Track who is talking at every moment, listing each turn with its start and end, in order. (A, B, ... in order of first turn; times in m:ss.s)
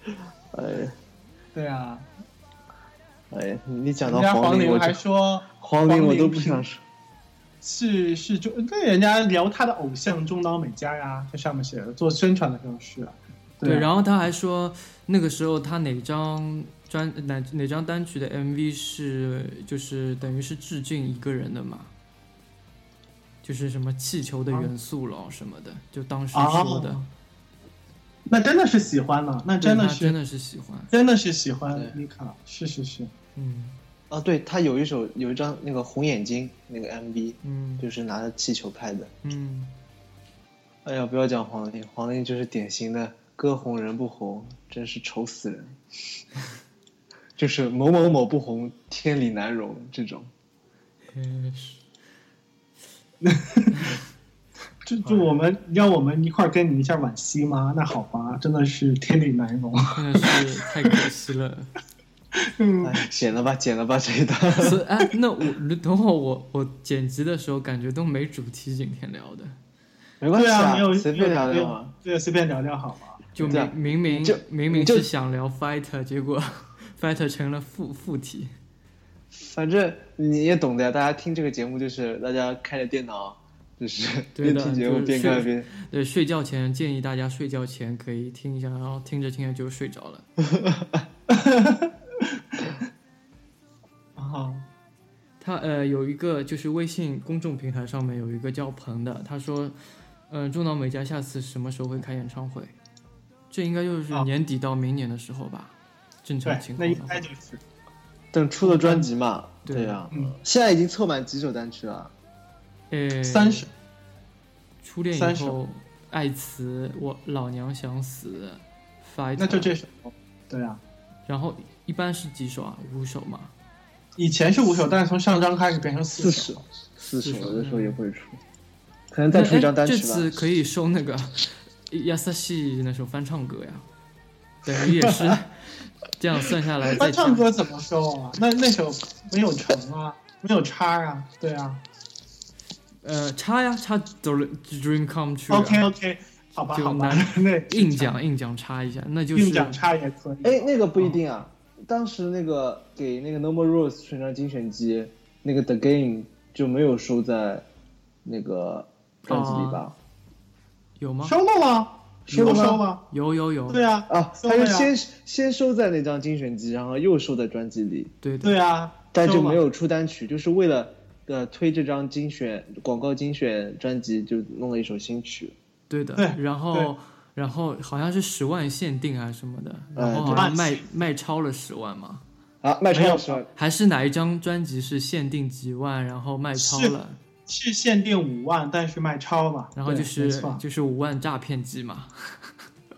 0:00.5-0:01.0 A
0:01.5-0:02.0 B
0:03.3-0:05.0 A
0:04.0-0:06.6 B
0:05.6-0:06.8 A
0:07.6-0:13.9 B
0:13.6-0:21.9 C
0:23.4-0:27.0 C
0:26.3-0:27.1 B
0:28.3-0:30.1 B
0:29.6-0:30.9 C
0:30.9-0:33.1 B
0:33.4-0:33.8 C
0:34.1-0:39.1 A
0:37.4-0:37.9 C
0:39.2-0:39.7 C
0:40.8-0:45.8 A
0:47.4-0:50.3 A
0:51.1-0:51.8 C
0:53.2-0:53.7 B
0:54.8-1:00.4 B
0:59.9-1:01.7 C
1:02.4-1:03.0 B
1:02.8-1:04.8 A
1:04.6-1:09.6 C
1:10.2-1:11.9 A
1:10.3-1:13.3 B
1:13.3-1:18.5 C
1:13.4-1:15.1 A
1:19.3-1:25.7 A
1:24.3-1:30.3 C
1:30.4-1:31.0 A
1:31.3-1:32.6 B
1:34.2-1:34.6 B
1:35.4-1:39.8 C
1:40.3-1:42.7 C
1:43.5-1:47.3 C
1:46.4-1:47.6 B
1:48.3-1:52.1 A
1:48.7-1:49.0 B
1:49.6-1:50.1 C
1:50.1-1:50.4 B
1:52.9-1:53.7 C
1:53.2-1:53.7 B
1:54.8-1:59.7 C
1:55.1-1:55.6 B
1:59.4-2:00.8 B
2:01.3-2:03.5 C
2:04.2-2:06.6 B
2:06.2-2:08.4 A
2:07.2-2:08.0 C
2:09.1-2:10.4 A
2:09.3-2:13.8 C
2:14.6-2:17.4 C
2:15.0-2:15.4 A
2:17.0-2:21.8 B
2:23.0-2:25.8 C
2:25.5-2:28.1 B
2:26.7-2:29.8 C
2:29.3-2:31.2 B
2:30.4-2:37.6 A
2:38.2-2:39.9 A
2:39.3-2:39.8 C
2:41.0-2:41.3 C
2:41.2-2:43.0 B
2:42.3-2:42.8 A
2:42.3-2:43.8 C
2:43.7-2:44.9 B
2:44.1-2:48.1 A
2:48.2-2:48.5 C
2:48.4-2:49.6 B
2:49.1-2:55.5 A
2:55.9-3:02.2 C
2:56.2-2:56.9 B
2:59.9-3:00.5 A
3:00.2-3:00.8 B
3:02.6-3:03.5 A
3:02.9-3:03.4 B
3:03.5-3:07.2 C
3:06.6-3:06.9 B
3:07.5-3:10.6 B
3:09.8-3:12.5 C